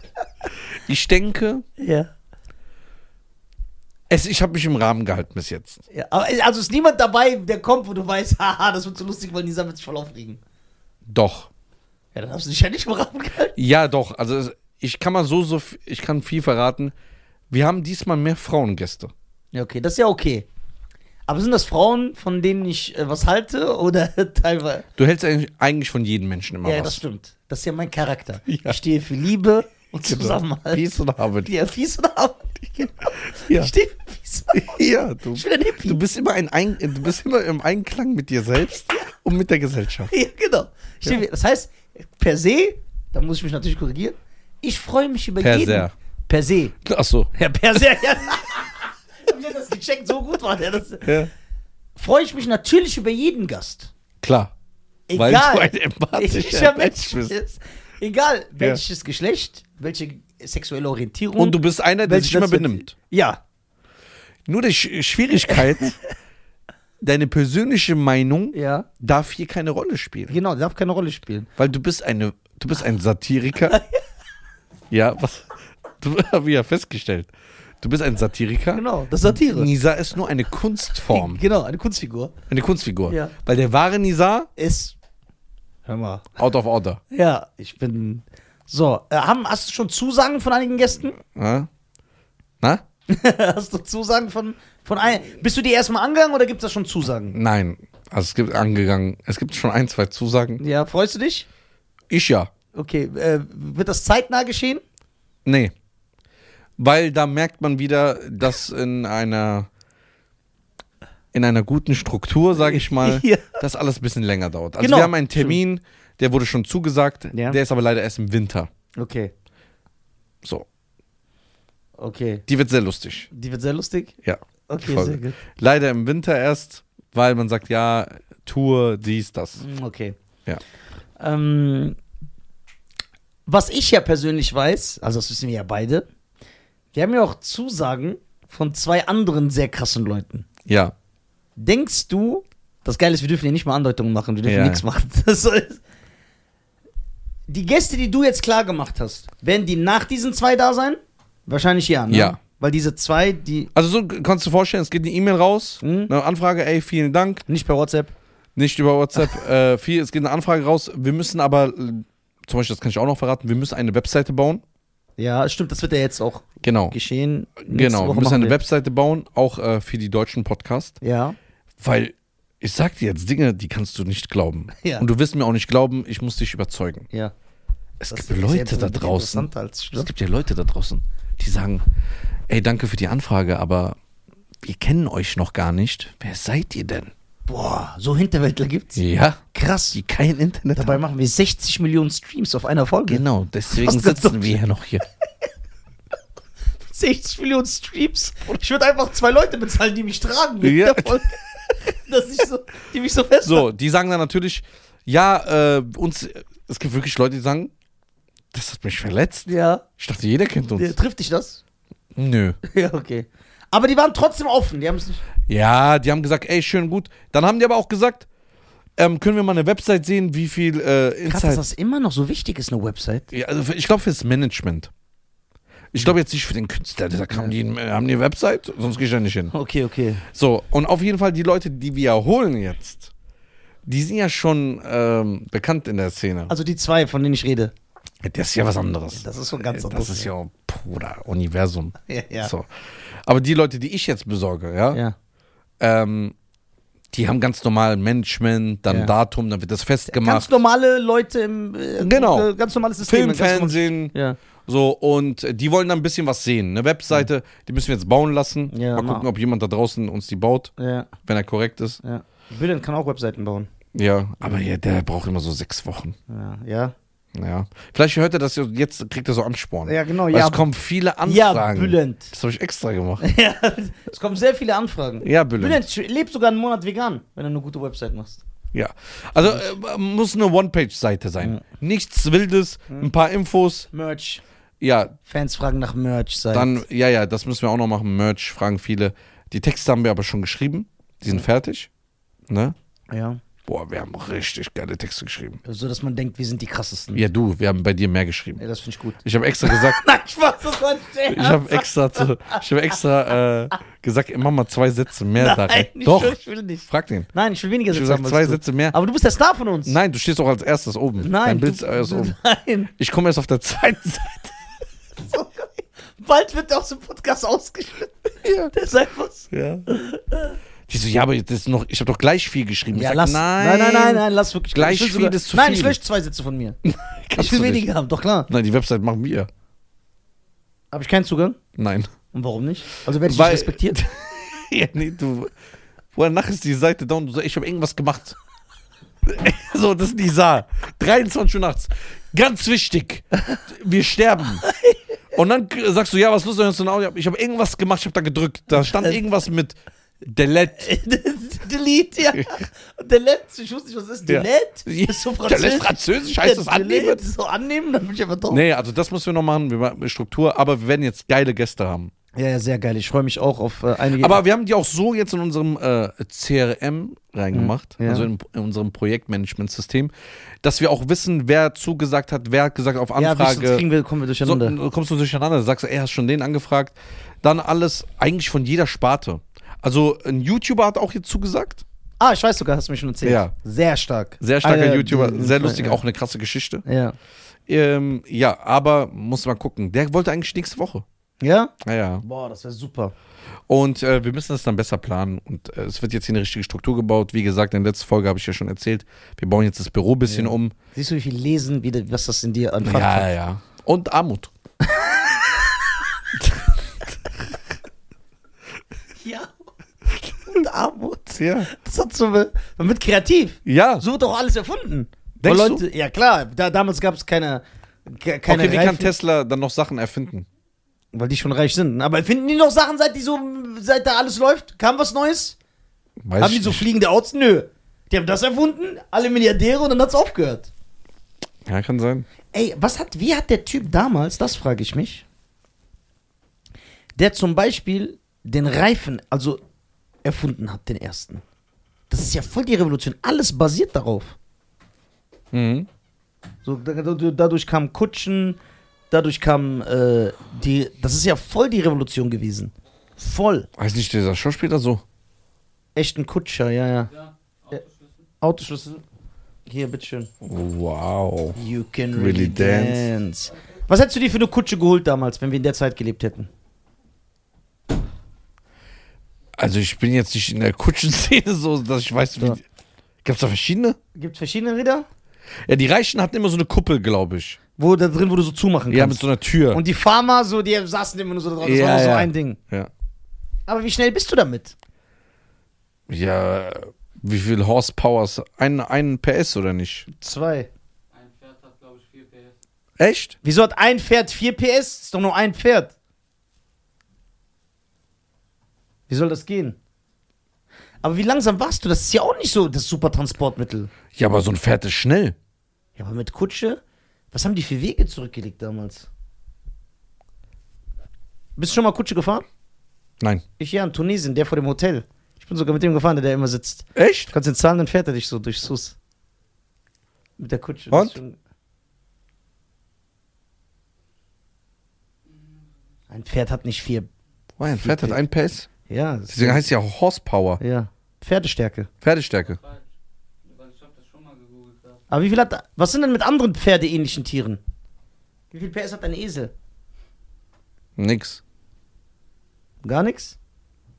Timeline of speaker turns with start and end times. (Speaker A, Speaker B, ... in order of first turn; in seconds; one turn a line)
Speaker A: 0.8-1.6
Speaker B: 1.8-2.1
Speaker A: 4.1-5.8
Speaker B: 5.9-10.4
Speaker A: 11.1-11.5
Speaker B: 12.2-13.6
Speaker A: 13.6-16.9
Speaker A: 17.5-19.1
Speaker B: 19.5-20.5
Speaker B: 21.3-24.9
Speaker A: 25.0-27.0
Speaker B: 26.6-30.8
Speaker A: 28.5-28.8
Speaker A: 30.0-31.5
Speaker B: 31.4-36.0
Speaker A: 33.3-33.7
Speaker A: 34.5-40.1
Speaker B: 40.1-46.8
Speaker A: 45.4-45.9
Speaker A: 46.8-47.3
Speaker B: 47.4-51.2
Speaker A: 51.0-51.3
Speaker B: 52.0-53.9
Speaker A: 54.2-54.5
Speaker B: 55.1-63.4
Speaker A: 55.1-57.4
Speaker A: 61.4-62.9
Speaker A: 64.5-66.0
Speaker A: 67.0-70.3
Speaker B: 68.5-68.9
Speaker B: 70.3-71.5
Speaker A: 71.6-73.8
Speaker B: 73.7-74.0
Speaker A: 74.9-75.5
Speaker A: 76.0-81.4
Speaker B: 78.7-79.7
Speaker B: 81.1-82.3
Speaker A: 82.5-84.5
Speaker B: 83.1-83.3
Speaker B: 84.6-85.0
Speaker B: 85.9-86.4
Speaker A: 86.4-87.0
Speaker B: 87.1-91.2
Speaker A: 91.3-91.7
Speaker B: 93.1-97.3
Speaker A: 97.3-100.6
Speaker B: 100.6-101.5
Speaker A: 102.1-102.5
Speaker B: 102.7-104.8
Speaker A: 105.5-105.7
Speaker A: 106.8-109.7
Speaker A: 111.3-118.7
Speaker B: 112.6-113.6
Speaker B: 114.8-115.6
Speaker B: 117.3-117.6
Speaker B: 119.0-119.3
Speaker B: 122.0-122.4
Speaker A: 122.5-123.3
Speaker B: 123.3-124.2
Speaker A: 124.2-129.6
Speaker B: 124.7-125.4
Speaker B: 129.6-130.2
Speaker B: 131.2-132.0
Speaker B: 133.5-136.1
Speaker B: 136.9-140.5
Speaker A: 140.7-140.9
Speaker B: 141.6-145.8
Speaker A: 144.5-144.8
Speaker B: 147.5-153.7
Speaker A: 152.1-152.4
Speaker A: 153.7-157.4
Speaker B: 155.8-156.1
Speaker B: 157.5-158.1
Speaker A: 158.6-164.6
Speaker B: 165.2-168.6
Speaker A: 166.6-167.0
Speaker A: 167.6-171.0
Speaker B: 171.0-171.4
Speaker A: 171.8-177.1
Speaker A: 178.0-181.8
Speaker B: 178.1-180.1
Speaker A: 182.5-184.0
Speaker A: 184.6-187.1
Speaker B: 187.5-189.0
Speaker A: 189.0-189.4
Speaker B: 189.5-190.0
Speaker A: 189.9-191.0
Speaker B: 190.7-194.6
Speaker A: 193.1-195.0
Speaker B: 196.8-203.7
Speaker A: 200.6-201.2
Speaker A: 203.4-207.7
Speaker A: 208.5-211.0
Speaker B: 209.5-209.8
Speaker B: 210.8-211.6
Speaker A: 212.2-212.6
Speaker B: 212.7-215.2
Speaker A: 215.5-218.3
Speaker A: 219.0-221.6
Speaker B: 221.3-223.3
Speaker A: 223.3-224.9
Speaker A: 225.9-229.5
Speaker B: 229.5-230.2
Speaker A: 230.3-233.1
Speaker A: 233.9-236.5
Speaker B: 236.5-237.7
Speaker A: 238.2-242.7
Speaker B: 239.2-240.3
Speaker B: 242.1-242.5
Speaker A: 243.2-245.0
Speaker A: 245.8-246.3
Speaker A: 247.1-250.6
Speaker B: 250.1-254.4
Speaker A: 252.0-252.5
Speaker A: 253.0-254.2
Speaker A: 254.7-260.7
Speaker B: 258.7-259.3
Speaker B: 260.8-261.1
Speaker A: 261.3-262.0
Speaker B: 262.0-263.7
Speaker A: 263.9-266.2
Speaker B: 266.3-266.9
Speaker A: 267.3-273.2
Speaker B: 269.9-270.6
Speaker B: 271.2-272.3
Speaker B: 273.2-278.4
Speaker A: 275.2-275.8
Speaker A: 278.7-283.9
Speaker B: 283.9-284.4
Speaker A: 284.8-285.2
Speaker B: 285.2-286.8
Speaker A: 286.5-291.9
Speaker A: 292.5-292.8
Speaker B: 293.1-293.4
Speaker A: 293.6-295.6
Speaker B: 295.6-297.2
Speaker A: 297.1-298.6
Speaker B: 298.6-302.6
Speaker A: 299.2-300.0
Speaker A: 301.3-307.3
Speaker B: 305.4-310.0
Speaker A: 307.9-309.0
Speaker A: 309.9-312.4
Speaker B: 311.2-312.9
Speaker A: 313.0-314.6
Speaker B: 315.2-320.6
Speaker A: 318.4-318.7
Speaker A: 319.5-319.9
Speaker A: 320.9-326.0
Speaker B: 322.9-326.8
Speaker A: 326.9-327.9
Speaker B: 327.4-328.5
Speaker A: 328.5-329.5
Speaker B: 330.9-331.6
Speaker A: 331.8-332.1
Speaker B: 332.3-334.0
Speaker A: 333.2-335.5
Speaker A: 336.1-338.4
Speaker A: 339.2-344.6
Speaker B: 344.6-345.0
Speaker A: 345.3-350.9
Speaker B: 348.8-349.2
Speaker B: 350.8-358.6
Speaker A: 354.3-357.2
Speaker A: 358.5-362.1
Speaker B: 362.4-364.4
Speaker A: 364.2-370.1
Speaker B: 367.5-368.3
Speaker A: 370.6-373.9
Speaker B: 373.2-374.8
Speaker A: 374.4-381.8
Speaker B: 382.2-386.0
Speaker A: 383.2-383.5
Speaker A: 384.4-386.8
Speaker B: 386.9-387.2
Speaker A: 387.7-391.1
Speaker B: 391.4-393.1
Speaker A: 391.8-392.2
Speaker A: 393.7-400.8
Speaker B: 400.3-403.3
Speaker A: 402.8-404.5
Speaker B: 404.9-405.5
Speaker B: 409.2-409.5
Speaker B: 410.5-419.1
Speaker A: 411.4-411.7
Speaker A: 413.7-414.0
Speaker A: 415.4-415.8
Speaker A: 418.5-420.5
Speaker B: 421.1-425.6
Speaker A: 426.2-426.9
Speaker B: 426.4-430.7
Speaker A: 431.7-432.3
Speaker B: 432.5-435.2
Speaker B: 437.2-439.6
Speaker B: 440.2-441.4
Speaker B: 442.1-444.4
Speaker A: 445.5-445.9
Speaker B: 446.6-448.6
Speaker B: 449.1-453.7
Speaker A: 453.8-455.0
Speaker B: 455.9-457.1
Speaker C: 457.1-458.3
Speaker B: 458.4-459.0
Speaker B: 459.7-460.3
Speaker A: 460.4-461.6
Speaker B: 461.6-466.5
Speaker A: 462.1-463.1
Speaker A: 469.6-472.6
Speaker A: 473.2-474.0
Speaker B: 474.1-475.1
Speaker A: 475.7-477.6
Speaker B: 477.8-482.6
Speaker A: 478.9-479.8
Speaker A: 481.6-482.9
Speaker B: 483.7-484.8
Speaker A: 486.1-490.1
Speaker B: 490.1-490.7
Speaker C: 491.1-492.6
Speaker A: 493.0-493.4
Speaker B: 493.4-495.9
Speaker B: 499.1-499.8
Speaker B: 501.0-503.9
Speaker A: 504.1-505.4
Speaker B: 506.0-506.8
Speaker B: 507.3-509.1
Speaker B: 511.6-512.4
Speaker B: 513.6-519.0
Speaker A: 517.0-517.3
Speaker B: 520.4-521.4
Speaker A: 520.9-521.2
Speaker C: 525.2-525.8
Speaker B: 526.1-527.1
Speaker A: 527.6-528.7
Speaker B: 527.7-528.2
Speaker B: 528.9-529.7
Speaker A: 529.3-530.6
Speaker B: 530.6-531.9
Speaker A: 532.0-532.6
Speaker C: 532.4-532.9
Speaker C: 533.4-535.0
Speaker B: 535.1-537.6
Speaker B: 538.5-539.5
Speaker A: 541.0-541.4
Speaker B: 542.8-543.4